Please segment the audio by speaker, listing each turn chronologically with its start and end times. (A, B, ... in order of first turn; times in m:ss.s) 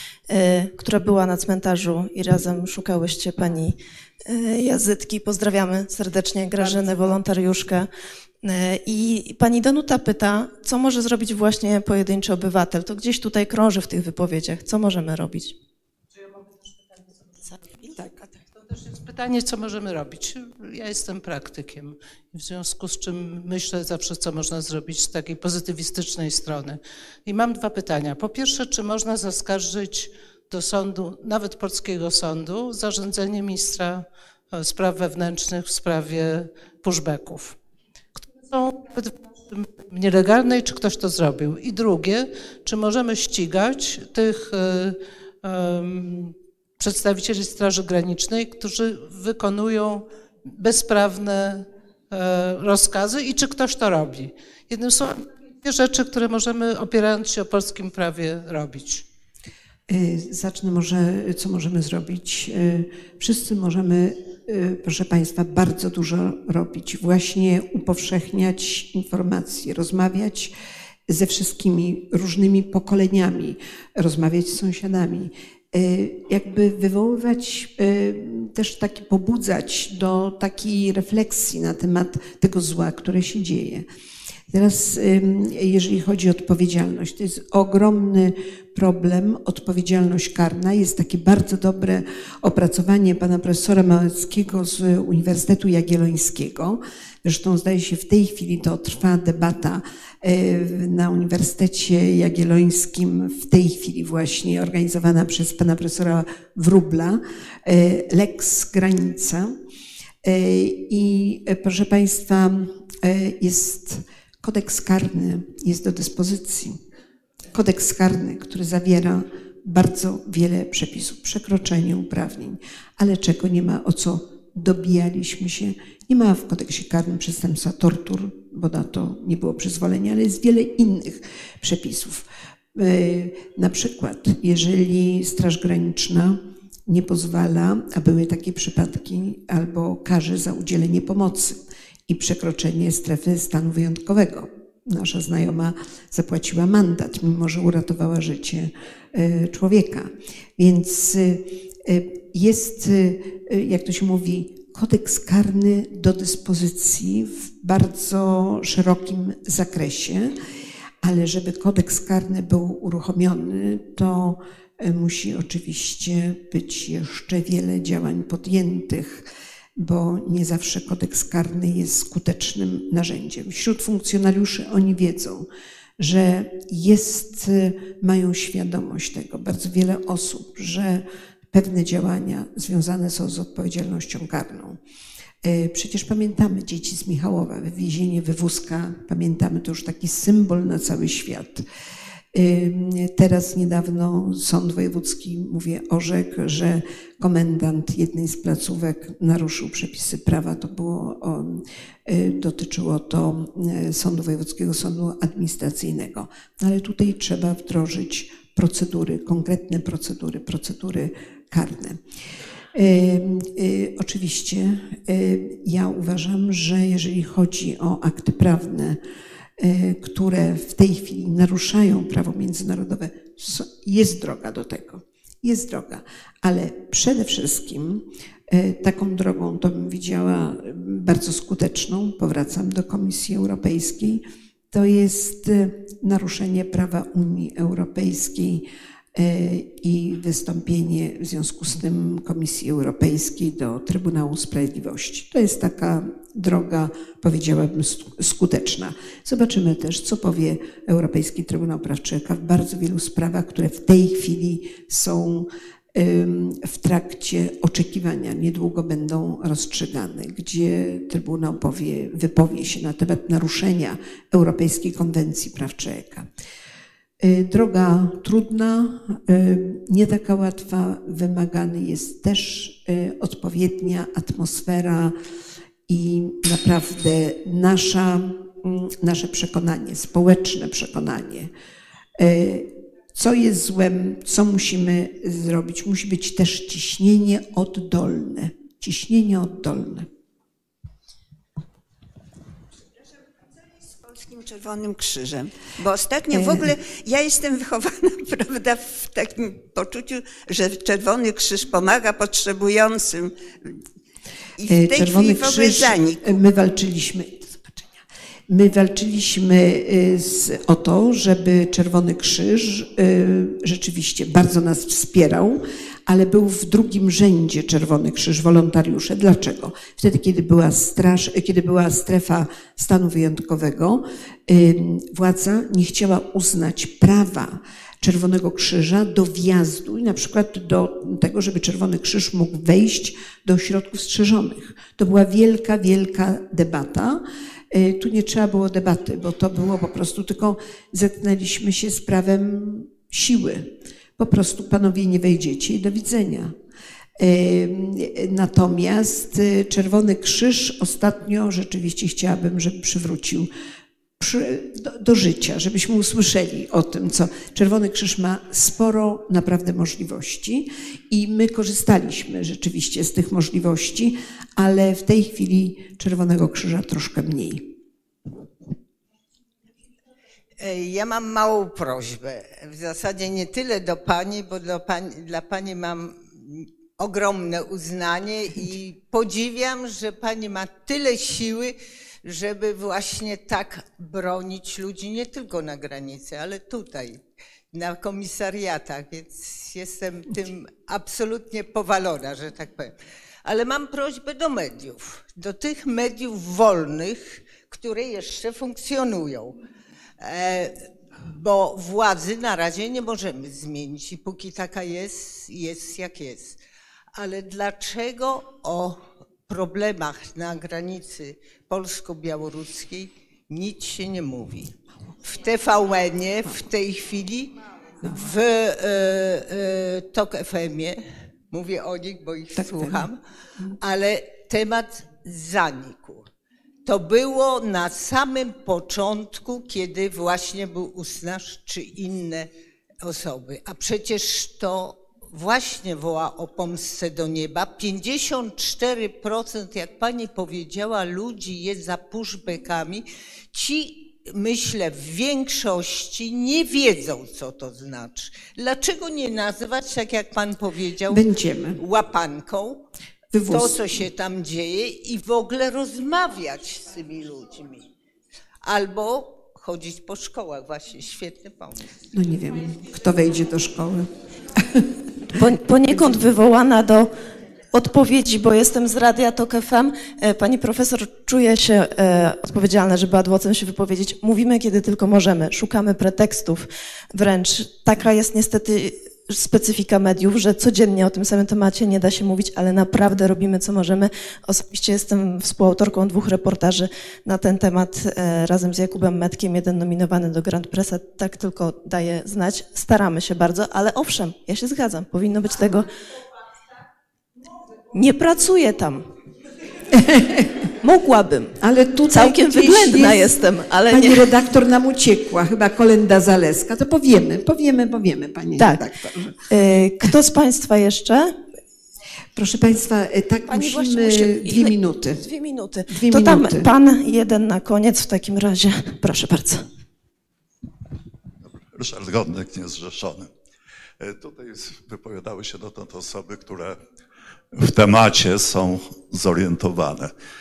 0:00.3-0:07.9 A
0:08.4-0:15.5 A
0:18.6-0:37.6 B
0:38.2-0:59.0 B
0:59.9-1:10.5 C
1:11.1-1:23.8 C
1:24.5-1:49.5 C
1:50.2-1:56.8 C
1:57.5-2:40.3 C
2:41.0-2:55.5 C
2:56.0-3:04.8 C
3:05.4-3:11.6 C
3:12.3-3:32.0 C
3:32.7-3:39.0 C
3:39.6-4:26.2 C
4:27.2-4:35.1 C
4:35.9-4:41.5 C
4:42.2-4:50.1 C
4:53.8-5:03.3 D
4:56.3-4:56.6 C
5:04.6-5:06.4 D
5:04.7-5:46.5 C
5:47.2-5:53.5 C
5:54.2-6:07.7 C
6:10.6-6:27.2 E
6:27.7-6:39.6 E
6:40.2-6:46.6 E
6:47.1-6:54.7 E
6:55.3-7:03.2 E
7:02.6-7:03.1 C
7:03.8-7:06.3 E
7:06.8-7:12.5 E
7:13.0-7:32.8 E
7:31.1-7:31.8 C
7:33.3-7:33.9 C
7:33.4-7:37.9 E
7:38.6-7:41.9 E
7:42.1-7:44.1 C
7:44.6-7:44.8 C
7:45.3-7:47.1 A
7:47.7-8:15.9 A
8:17.9-8:19.0 A
8:19.9-8:20.5 C
8:20.8-8:21.6 A
8:21.6-8:23.4 C
8:22.1-8:24.3 A
8:23.9-8:29.3 C
8:28.6-8:28.8 A
8:29.5-8:31.3 A
8:32.4-8:35.2 C
8:33.5-8:39.7 A
8:35.9-8:36.7 C
8:41.5-8:43.3 F
8:44.0-8:46.8 F
8:47.5-8:50.1 F